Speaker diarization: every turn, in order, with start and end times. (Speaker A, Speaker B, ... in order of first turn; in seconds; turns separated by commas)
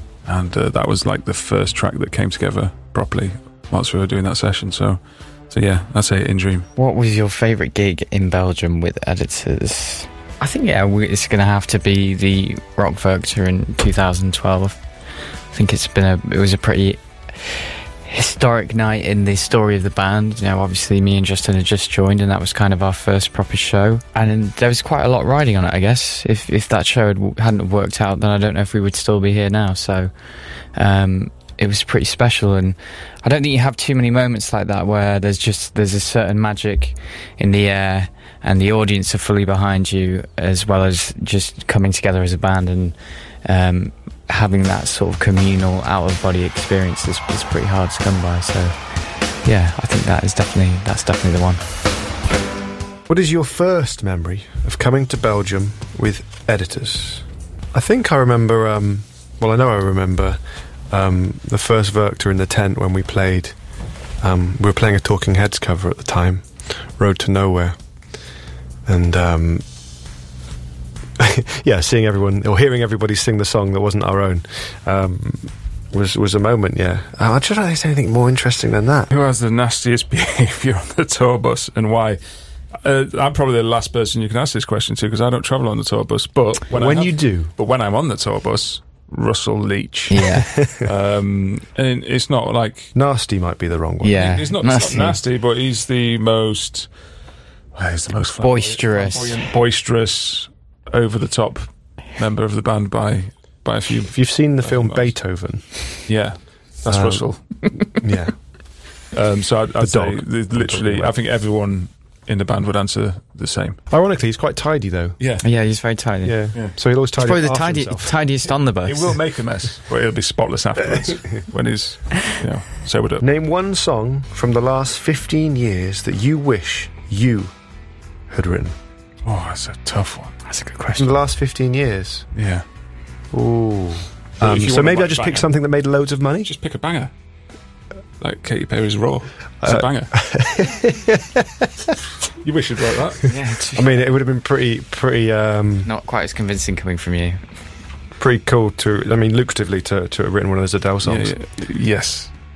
Speaker A: 0.2-6.7, Speaker B: 6.8-51.6, Speaker C: 53.1-63.6, Speaker C: 64.2-67.8, Speaker C: 68.8-69.6, Speaker C: 71.2-79.1, Speaker A: 79.1-82.2, Speaker A: 82.7-92.9, Speaker C: 86.7-87.5, Speaker B: 90.1-90.6, Speaker C: 92.9-94.3, Speaker B: 94.0-95.2, Speaker A: 94.1-96.9, Speaker A: 97.7-105.2, Speaker B: 98.4-99.4, Speaker C: 104.1-106.0, Speaker A: 106.0-107.5, Speaker C: 106.8-108.4, Speaker A: 109.1-113.8, Speaker C: 109.8-111.1, Speaker C: 113.9-115.2, Speaker A: 115.2-115.4, Speaker B: 115.4-119.2, Speaker C: 116.2-118.2, Speaker A: 118.8-123.2, Speaker C: 120.9-121.4, Speaker C: 123.2-127.5, Speaker C: 128.3-128.8, Speaker A: 129.2-130.3, Speaker B: 130.4-131.2, Speaker C: 130.9-132.3, Speaker A: 132.3-132.6, Speaker C: 133.3-136.5, Speaker A: 134.4-135.5, Speaker A: 136.4-137.1, Speaker A: 138.2-140.1, Speaker C: 139.6-141.9, Speaker A: 142.4-143.3, Speaker B: 143.3-144.0, Speaker C: 143.7-145.9, Speaker B: 145.8-147.6, Speaker C: 148.2-151.3, Speaker A: 151.0-152.3